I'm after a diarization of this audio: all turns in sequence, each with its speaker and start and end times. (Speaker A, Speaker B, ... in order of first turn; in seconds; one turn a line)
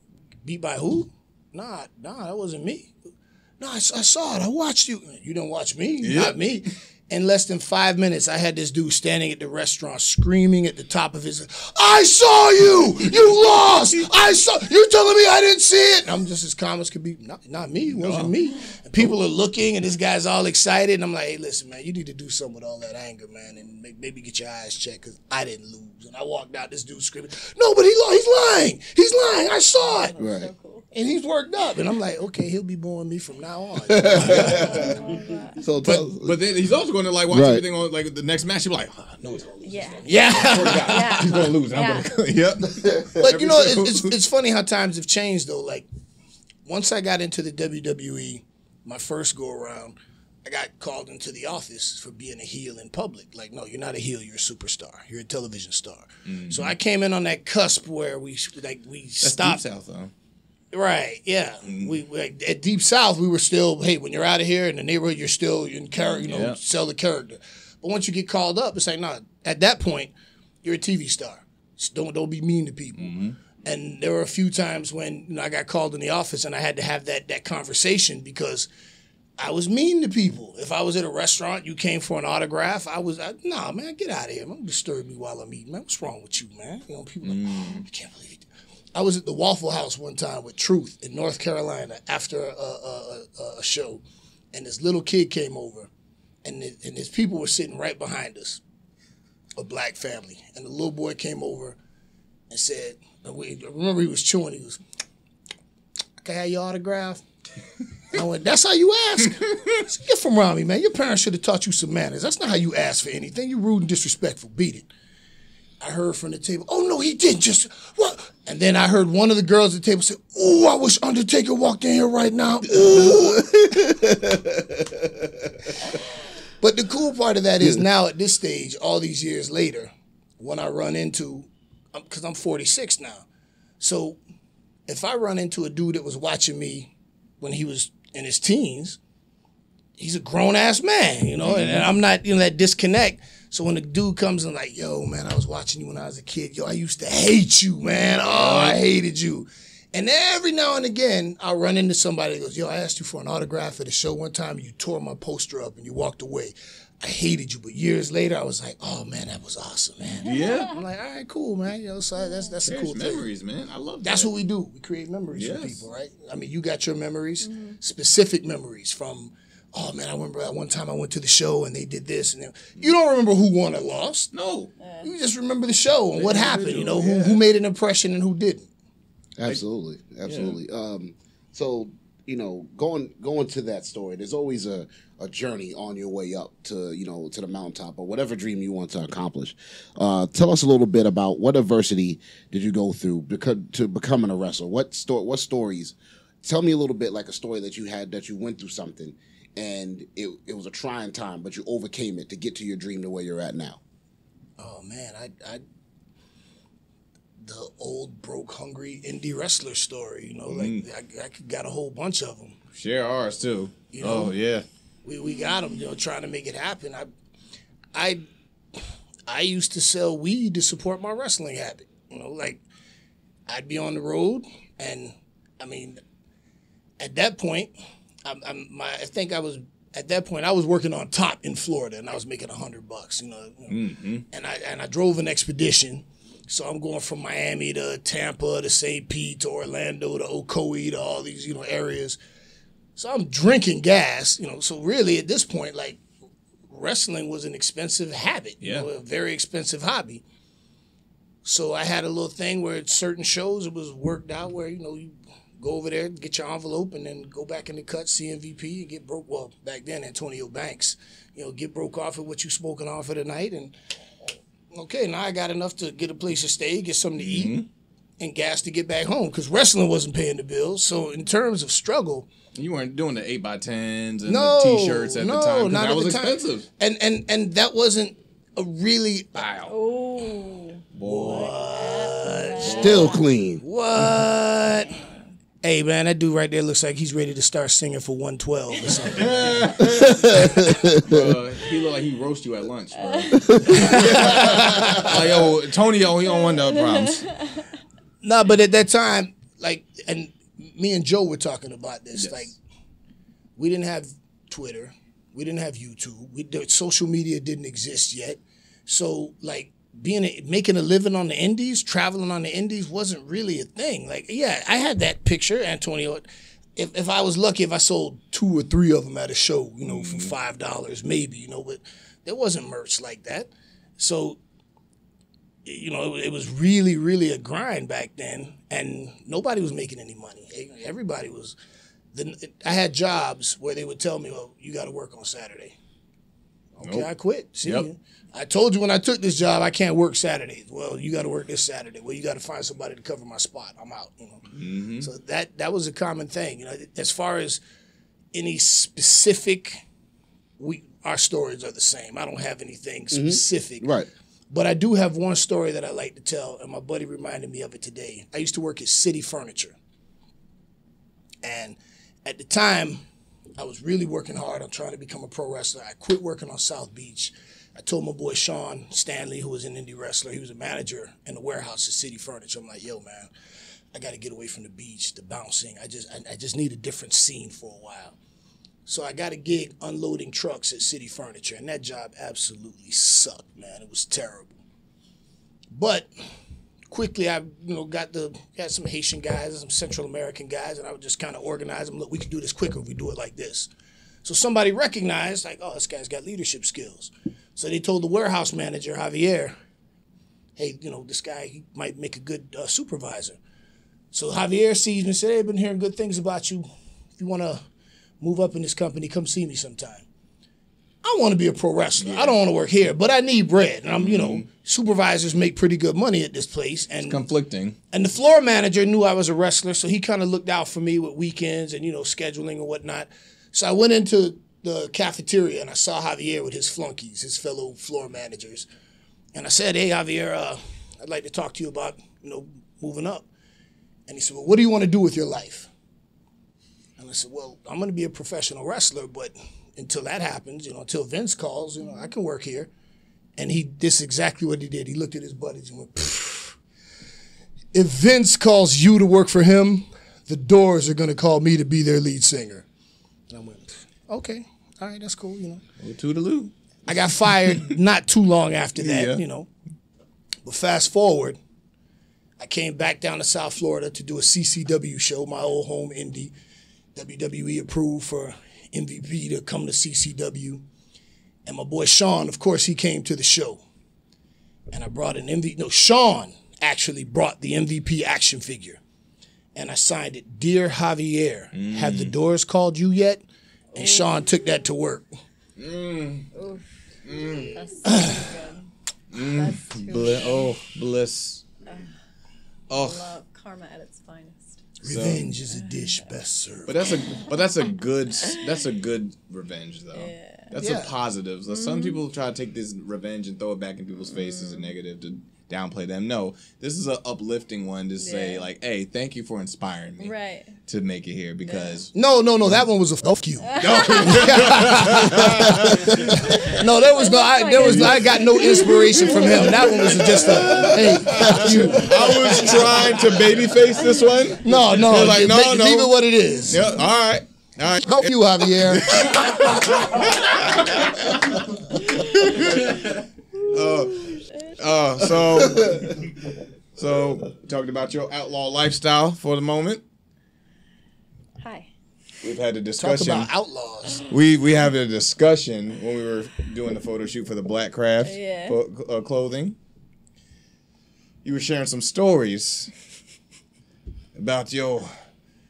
Speaker A: 0.4-2.9
Speaker A: 3.6-30.2
Speaker B: 6.0-6.4
Speaker B: 17.9-18.3
Speaker C: 29.8-30.9
Speaker D: 30.2-30.5
Speaker A: 30.9-35.1
Speaker D: 33.9-34.9
Speaker B: 34.1-34.9
Speaker C: 34.4-35.6
Speaker D: 35.6-36.4
Speaker B: 35.8-39.2
Speaker D: 37.3-37.6
Speaker D: 39.2-39.8
Speaker C: 39.6-42.1
Speaker A: 40.0-41.5
Speaker B: 40.3-44.1
Speaker A: 43.2-45.9
Speaker A: 46.6-59.6
Speaker B: 56.3-56.7
Speaker B: 59.2-60.1
Speaker A: 60.7-70.1
Speaker B: 61.6-62.0
Speaker B: 66.2-66.6
Speaker A: 70.6-78.7
Speaker B: 73.0-73.4
Speaker A: 79.4-95.9
Speaker B: 87.2-87.8
Speaker A: 96.4-98.6
Speaker A: 99.6-101.8
Speaker A: 102.5-104.8
Speaker A: 106.2-107.2
Speaker A: 108.1-114.9
Speaker A: 115.8-123.5
Speaker D: 122.7-125.7
Speaker A: 126.6-133.2
Speaker A: 133.8-134.2
Speaker A: 134.9-139.0
Speaker A: 140.0-163.3
Speaker B: 141.4-141.9
Speaker B: 148.3-148.8
Speaker B: 160.2-160.8
Speaker C: 162.2-162.5
Speaker B: 162.6-164.3
Speaker A: 164.0-174.3
Speaker B: 165.3-165.8
Speaker C: 167.4-167.8
Speaker B: 174.3-174.7
Speaker C: 174.8-175.1
Speaker A: 175.0-178.7
Speaker B: 176.1-177.4
Speaker D: 179.4-203.8
Speaker B: 180.2-180.6
Speaker A: 204.6-205.6
Speaker A: 207.4-212.6
Speaker B: 210.5-210.8
Speaker B: 212.7-214.6
Speaker A: 213.9-214.3
Speaker A: 215.0-217.1
Speaker A: 217.9-218.2
Speaker A: 218.7-222.6
Speaker A: 223.5-226.0
Speaker A: 227.0-227.7
Speaker A: 228.2-242.2
Speaker B: 233.7-234.2
Speaker A: 242.9-246.0
Speaker A: 246.7-250.2
Speaker B: 248.6-248.9
Speaker A: 251.4-263.7
Speaker A: 264.7-267.6
Speaker B: 267.2-267.7
Speaker A: 268.2-272.3
Speaker B: 272.5-276.7
Speaker A: 274.2-279.6
Speaker B: 279.4-279.7
Speaker C: 279.7-283.2
Speaker B: 280.9-281.5
Speaker A: 281.1-283.1
Speaker D: 282.6-283.6
Speaker B: 282.6-283.1
Speaker A: 283.6-285.0
Speaker A: 285.6-290.4
Speaker B: 289.1-290.5
Speaker D: 289.9-291.3
Speaker B: 291.0-297.3
Speaker C: 292.9-293.3
Speaker D: 293.4-294.0
Speaker A: 293.7-295.5
Speaker C: 296.3-297.7
Speaker A: 298.2-302.5
Speaker B: 302.1-302.5
Speaker A: 303.6-324.4
Speaker B: 319.8-320.3
Speaker A: 325.6-331.6
Speaker A: 332.1-335.7
Speaker A: 336.8-344.5
Speaker B: 336.8-337.1
Speaker B: 344.5-345.1
Speaker A: 345.0-347.6
Speaker A: 348.3-349.8
Speaker A: 350.6-353.9
Speaker D: 353.1-354.1
Speaker A: 354.5-359.8
Speaker A: 361.4-363.0
Speaker A: 363.6-373.3
Speaker A: 373.9-378.2
Speaker A: 378.9-384.6
Speaker A: 385.7-386.1
Speaker A: 386.9-393.7
Speaker A: 394.2-399.6
Speaker A: 400.6-403.4
Speaker A: 404.1-407.6
Speaker A: 408.2-410.0
Speaker A: 411.0-417.2
Speaker B: 412.0-412.4
Speaker B: 414.0-414.4
Speaker B: 417.0-417.8
Speaker A: 417.9-428.7
Speaker A: 429.3-433.3
Speaker A: 434.1-435.7
Speaker A: 437.0-442.7
Speaker A: 443.4-446.6
Speaker A: 447.7-452.6
Speaker A: 453.3-455.6
Speaker B: 455.8-456.5
Speaker A: 456.9-459.5
Speaker B: 457.2-457.7
Speaker B: 458.8-459.2
Speaker A: 460.4-461.4
Speaker A: 462.4-466.3
Speaker A: 466.9-470.6
Speaker A: 471.4-473.6
Speaker A: 474.7-478.8
Speaker A: 479.5-483.2
Speaker B: 481.5-482.1
Speaker C: 483.7-484.1
Speaker A: 483.7-485.1
Speaker B: 485.6-486.3
Speaker C: 486.3-490.6
Speaker B: 487.0-487.6
Speaker A: 487.9-488.3
Speaker B: 489.1-491.4
Speaker B: 492.7-493.1
Speaker C: 492.7-494.6
Speaker A: 494.8-497.0
Speaker B: 494.8-495.2
Speaker B: 496.6-510.1
Speaker C: 498.2-498.5
Speaker C: 499.9-500.5
Speaker A: 500.6-500.9
Speaker C: 501.5-502.0
Speaker C: 504.1-504.7
Speaker C: 508.0-508.4
Speaker C: 510.0-510.5
Speaker B: 510.6-511.9
Speaker C: 511.4-511.9
Speaker A: 511.9-523.5
Speaker C: 513.4-514.4
Speaker B: 513.6-516.0
Speaker C: 516.2-520.0
Speaker B: 517.6-518.0
Speaker B: 518.8-536.1
Speaker A: 524.4-526.8
Speaker A: 527.8-529.8
Speaker C: 531.8-534.6
Speaker B: 536.8-539.8
Speaker C: 541.4-541.7
Speaker B: 542.2-543.3
Speaker A: 542.8-544.1
Speaker B: 544.1-549.5
Speaker C: 548.0-548.6
Speaker B: 551.2-552.7
Speaker B: 554.1-554.9